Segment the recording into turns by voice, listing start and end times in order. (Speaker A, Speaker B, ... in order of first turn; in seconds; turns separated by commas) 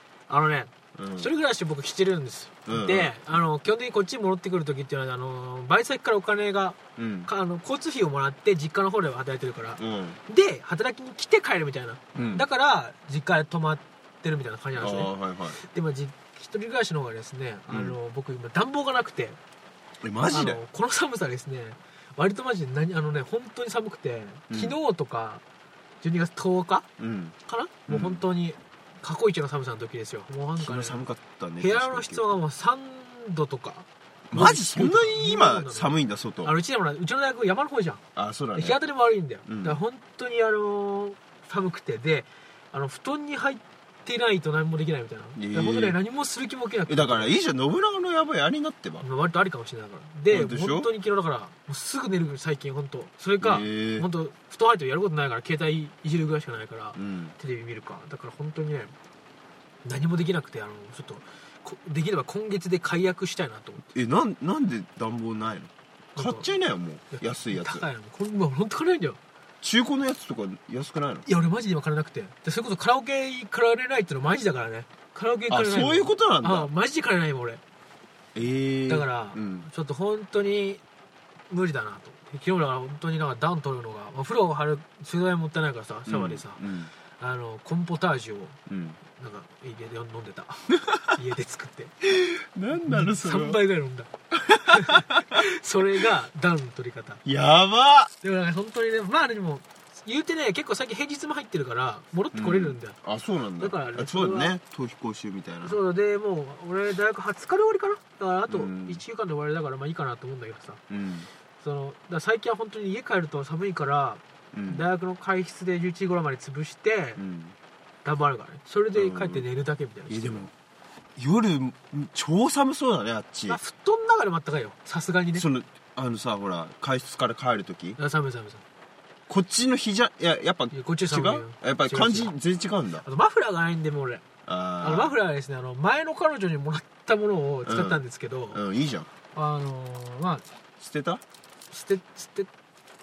Speaker A: 0.3-19.4, Speaker B: 0.9-1.3, Speaker B: 2.6-3.3, Speaker B: 7.0-7.3, Speaker B: 9.8-10.2, Speaker B: 12.1-12.4, Speaker B: 14.8-15.6, Speaker B: 17.7-17.9, Speaker B: 20.0-20.6, Speaker A: 20.3-25.4, Speaker B: 24.5-24.8, Speaker A: 26.0-26.9, Speaker B: 27.0-27.3, Speaker A: 27.5-31.0, Speaker B: 27.9-28.2, Speaker B: 30.6-32.4, Speaker A: 31.6-38.0, Speaker B: 34.3-36.5, Speaker B: 38.1-38.8, Speaker A: 38.5-47.3, Speaker B: 39.5-39.8, Speaker B: 45.4-46.0, Speaker B: 46.9-49.0, Speaker A: 49.0-58.9, Speaker B: 50.3-50.9, Speaker B: 53.4-54.1, Speaker B: 57.0-57.3, Speaker A: 59.8-63.8, Speaker B: 63.9-67.8, Speaker A: 66.2-66.5, Speaker A: 67.1-69.2, Speaker B: 69.6-71.2, Speaker A: 71.2-77.6, Speaker B: 75.5-76.7, Speaker B: 78.3-79.7, Speaker A: 78.9-80.8, Speaker A: 81.5-86.6, Speaker B: 86.0-86.9, Speaker A: 87.2-88.6, Speaker B: 88.7-89.0, Speaker A: 89.1-91.9, Speaker B: 92.0-93.6, Speaker A: 92.7-94.1, Speaker B: 94.3-95.4, Speaker A: 94.7-97.2, Speaker B: 97.2-98.1, Speaker A: 98.2-102.9, Speaker B: 102.3-105.8, Speaker A: 103.6-104.5, Speaker A: 105.6-110.8, Speaker B: 108.5-109.0, Speaker B: 110.9-111.3, Speaker A: 111.6-117.2, Speaker B: 114.5-114.8, Speaker B: 117.2-117.5, Speaker A: 118.0-120.5, Speaker B: 118.9-119.4, Speaker B: 120.1-120.5, Speaker B: 121.2-123.6, Speaker A: 123.5-125.4, Speaker B: 125.3-128.0, Speaker A: 128.0-128.6, Speaker B: 129.3-133.1, Speaker A: 130.7-132.3, Speaker A: 133.0-134.2, Speaker B: 134.4-135.1, Speaker A: 134.8-138.6, Speaker B: 137.6-138.0, Speaker B: 138.5-139.1, Speaker A: 139.3-140.4, Speaker B: 140.8-141.2, Speaker A: 141.7-142.5